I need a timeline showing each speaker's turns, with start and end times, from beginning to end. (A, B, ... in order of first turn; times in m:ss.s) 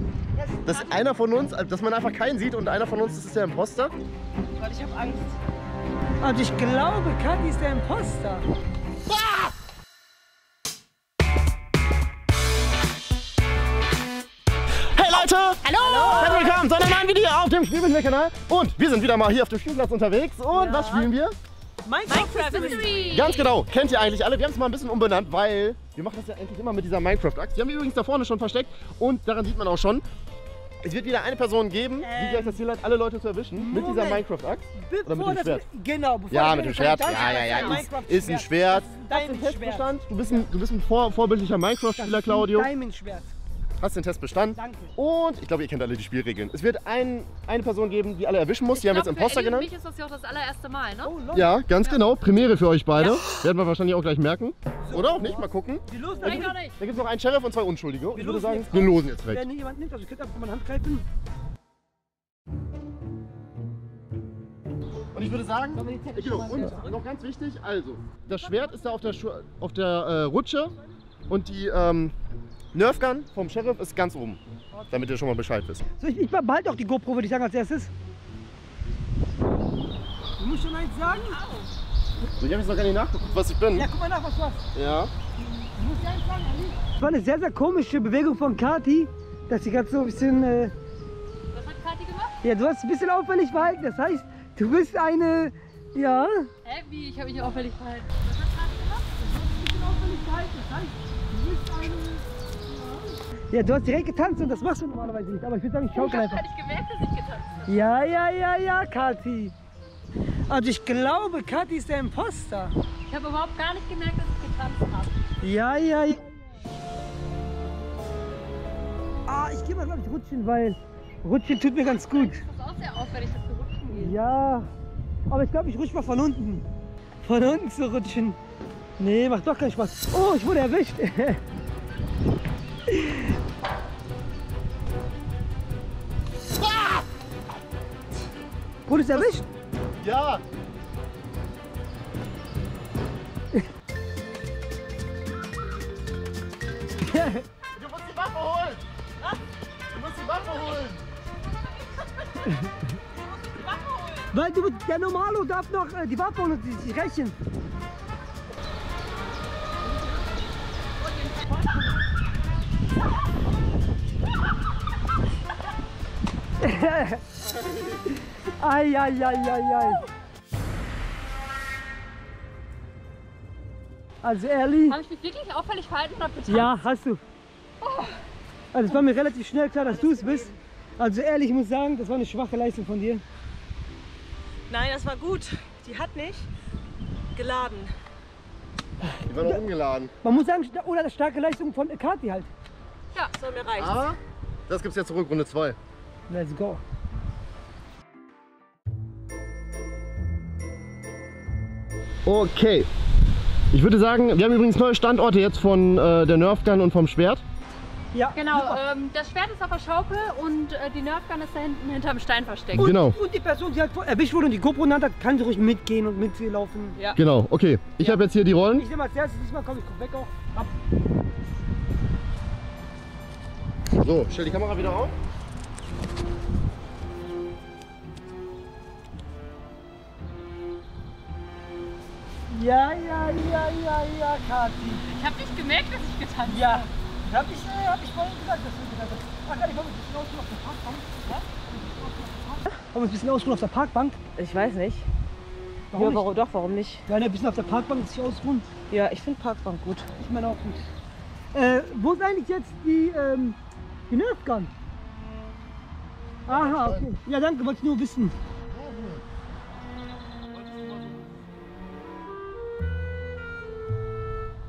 0:00.4-0:00.8 A
0:00.7-0:04.0 B
0:04.5-0:05.4 C
0:06.2-0:08.5 A
0:09.1-0:09.5 B
0:14.9-0:21.4 B
0:15.6-0:16.6 D
0:15.8-0:16.5 A
0:20.5-0:21.1 C
0:21.8-0:23.3 C
0:22.1-0:23.6 D
0:22.5-0:22.9 A
0:23.1-0:30.0 B
0:30.8-0:35.6 B
0:32.0-0:32.6 C
0:33.6-0:40.5 A
0:36.3-0:42.7 B
0:36.7-0:37.8 D
0:42.0-0:43.3 A
0:43.8-0:49.7 B
0:44.6-0:44.9 A
0:48.7-0:51.2 D
0:51.0-0:51.6 A
0:51.3-0:59.5 B
0:53.0-0:53.3 D
0:54.8-0:56.6 A
0:56.2-0:56.8 D
0:58.1-1:01.0 A
1:05.1-1:10.8 B
1:05.8-1:07.0 C
1:05.8-1:06.9 A
1:11.3-1:12.2 B
1:12.7-1:15.8 B
1:16.0-1:17.9 A
1:20.4-1:21.4 A
1:21.1-1:21.7 C
1:22.4-1:23.9 B
1:23.7-1:24.7 A
1:24.7-1:25.1 B
1:25.7-1:30.7 A
1:31.5-1:32.4 D
1:32.4-1:36.5 A
1:36.6-1:39.1 D
1:39.2-1:42.3 A
1:43.5-1:46.4 A
1:45.9-1:47.8 D
1:47.7-1:49.5 A
1:50.5-1:52.8 A
1:53.1-1:55.2 D
1:55.4-1:56.3 A
1:59.3-2:02.4 A
2:01.8-2:04.2 D
2:03.9-2:04.7 A
2:05.3-2:06.6 A
2:07.2-2:08.4 A
2:09.0-2:11.4 A
2:12.9-2:13.2 A
2:16.6-2:17.0 B
2:18.9-2:19.4 A
2:20.0-2:20.4 B
2:27.1-2:27.4 A
2:27.8-2:28.8 B
2:29.9-2:31.0 B
2:31.6-2:34.3 C
2:34.3-2:37.4 A
2:41.0-2:41.7 D
2:46.6-2:47.2 A
2:47.4-2:48.1 B
2:48.6-2:50.0 A
2:54.2-2:55.0 A
2:54.9-2:56.8 D
2:56.5-2:57.2 A
2:57.8-2:58.1 D
2:58.7-3:03.2 A
2:59.8-3:00.6 C
3:04.7-3:06.5 C
3:07.4-3:07.9 C
3:09.2-3:10.1 B
3:09.3-3:09.6 A
3:10.2-3:12.5 A
3:13.3-3:14.1 C
3:13.8-3:15.8 B
3:16.3-3:16.8 A
3:22.2-3:22.9 B
3:23.7-3:27.4 B
3:28.1-3:28.8 A
3:28.3-3:33.0 D
3:32.7-3:33.2 B
3:32.9-3:37.0 A
3:37.2-3:38.9 B
3:38.7-3:40.7 A
3:44.0-3:45.2 B
3:52.5-3:55.0 A
3:55.1-3:56.9 D
3:56.5-4:04.2 A
4:04.4-4:05.1 C
4:05.9-4:06.3 A
4:05.9-4:07.0 C
4:07.1-4:08.7 A
4:08.9-4:10.1 C
4:10.2-4:10.8 A
4:11.5-4:13.6 A
4:14.1-4:14.7 A
4:16.5-4:18.4 A
4:16.5-4:17.1 B
4:18.7-4:19.2 B
4:20.6-4:21.3 B